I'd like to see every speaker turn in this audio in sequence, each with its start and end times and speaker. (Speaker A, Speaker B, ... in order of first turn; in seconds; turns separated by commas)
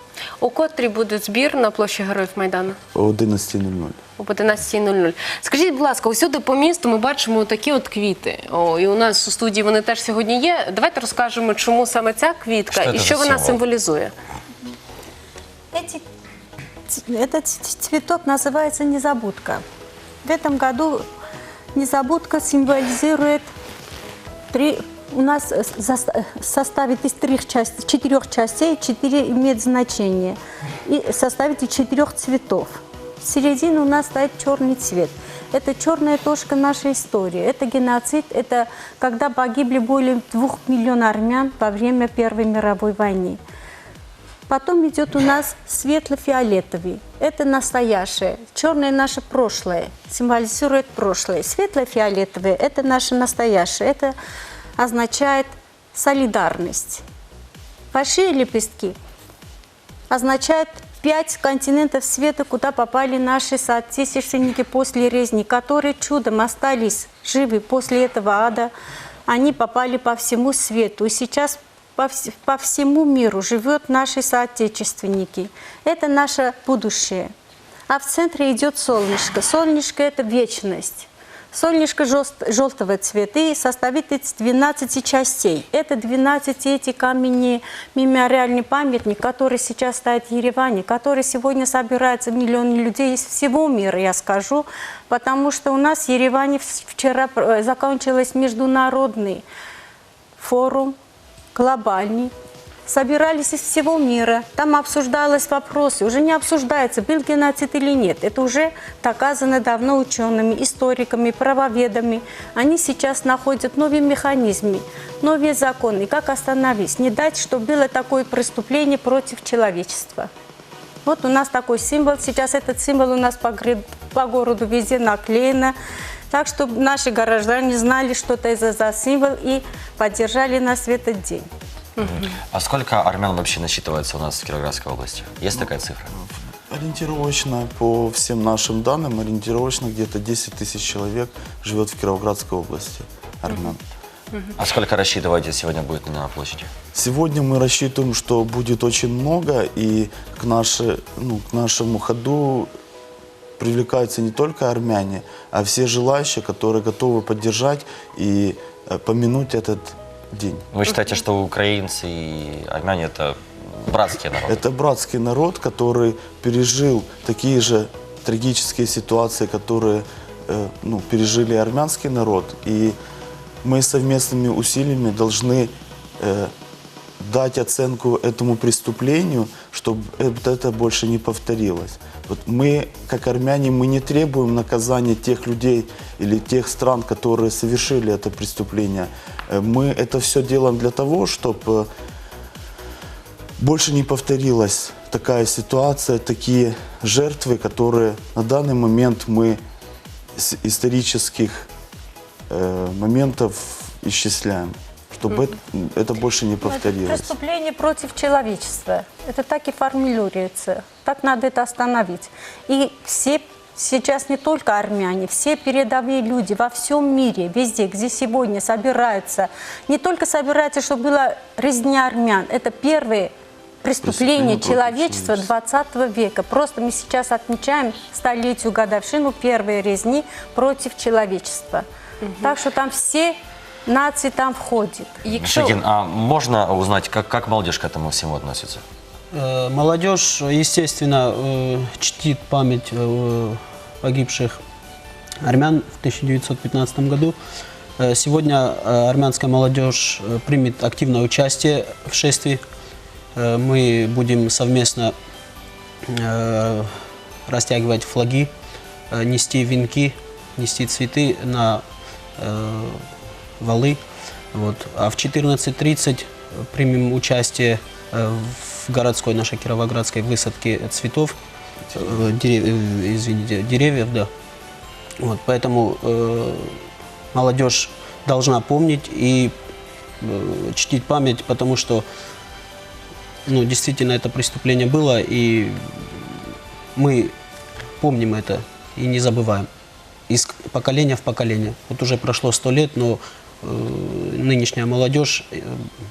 Speaker A: 0.4-2.8, Speaker B: 2.9-4.0, Speaker A: 4.2-14.1, Speaker C: 12.7-13.6, Speaker D: 15.7-16.0, Speaker D: 16.9-19.6, Speaker D: 20.2-21.0, Speaker D: 21.7-23.5, Speaker D: 24.5-43.4, Speaker D: 44.5-54.1, Speaker D: 54.8-57.0, Speaker D: 57.9-59.0, Speaker D: 60.1-68.7, Speaker D: 69.3-77.3, Speaker D: 77.9-99.4, Speaker D: 100.4-101.0, Speaker D: 101.5-102.3, Speaker D: 102.9-120.3, Speaker D: 121.0-125.7, Speaker D: 126.3-131.5, Speaker C: 132.0-136.1, Speaker A: 132.0-132.3, Speaker B: 136.1-143.8, Speaker C: 144.6-146.7, Speaker B: 146.9-152.7, Speaker B: 153.6-160.7, Speaker C: 160.7-164.6, Speaker B: 164.5-172.9, Speaker B: 173.6-176.5, Speaker B: 177.2-191.9, Speaker B: 193.6-199.6, Speaker B: 200.3-201.7, Speaker B: 202.5-207.3, Speaker D: 206.6-223.3, Speaker D: 223.8-231.8, Speaker B: 224.0-225.5, Speaker D: 232.4-235.2, Speaker A: 235.2-235.8, Speaker C: 235.4-238.8, Speaker E: 239.3-244.6, Speaker E: 245.4-247.3, Speaker E: 248.0-252.6, Speaker E: 253.3-255.1, Speaker E: 256.1-256.9, Speaker E: 257.5-258.5, Speaker E: 259.1-261.8, Speaker E: 262.4-263.0, Speaker E: 263.6-264.0, Speaker E: 264.5-271.4, Speaker B: 271.9-272.2, Speaker E: 271.9-274.3, Speaker E: 275.2-276.8, Speaker E: 277.3-279.5, Speaker E: 280.2-282.1, Speaker E: 283.4-286.2, Speaker E: 286.9-287.3, Speaker E: 288.0-289.7, Speaker E: 290.3-295.7